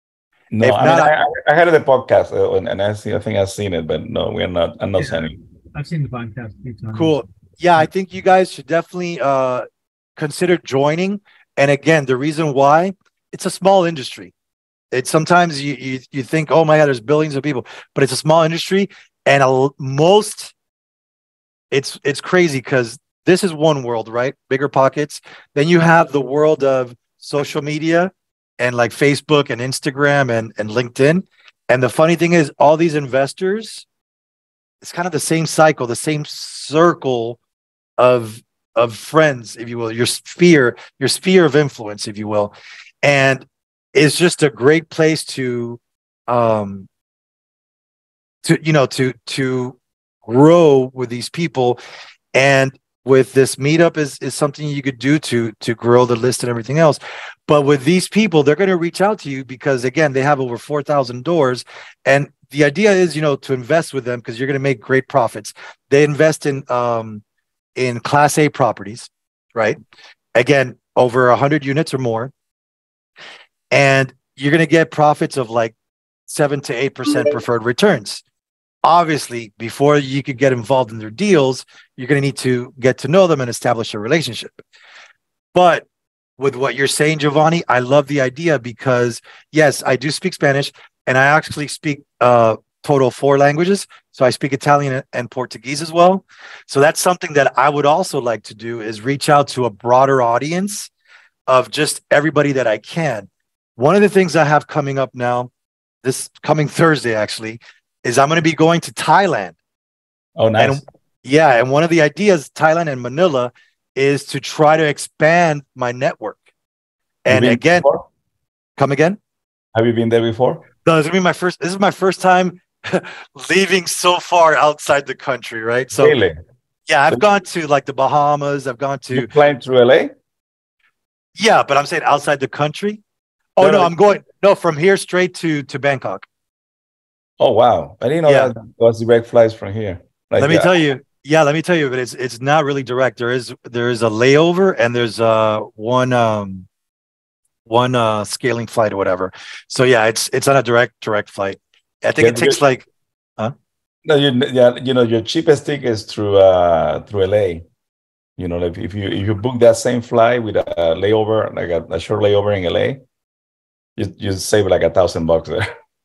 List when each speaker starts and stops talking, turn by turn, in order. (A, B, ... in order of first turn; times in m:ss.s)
0:00.5-0:05.3 A
0:00.6-0:01.1 B
0:05.0-0:07.2 C
0:06.9-0:09.7 B
0:10.2-0:14.3 B
0:14.9-0:20.5 B
0:21.7-0:33.9 B
0:34.8-0:37.4 B
0:38.0-0:46.9 B
0:48.4-0:51.8 B
0:52.3-1:07.2 B
1:07.8-1:09.8 B
1:10.4-1:12.3 B
1:13.7-1:15.7 B
1:16.3-1:18.2 B
1:18.8-1:24.6 B
1:25.5-1:25.9 B
1:26.4-1:40.9 B
1:41.5-1:45.5 B
1:46.0-1:49.6 B
1:50.4-1:50.8 A
1:50.6-1:56.4 B
1:57.2-1:57.9 B
1:57.3-1:58.1 A
1:58.8-1:59.2 B
1:59.7-2:00.7 A
2:00.8-2:06.2 B
2:06.0-2:06.4 A
2:06.9-2:09.3 B
2:09.1-2:10.1 A
2:11.4-2:13.0 B
2:13.6-2:16.3 B
2:13.6-2:13.9 A
2:17.4-2:20.7 A
2:18.2-2:18.5 B
2:20.4-2:26.7 B
2:27.7-2:32.9 B
2:32.2-2:32.6 A
2:34.0-2:37.6 A
2:38.4-2:43.0 A
2:44.0-2:45.7 A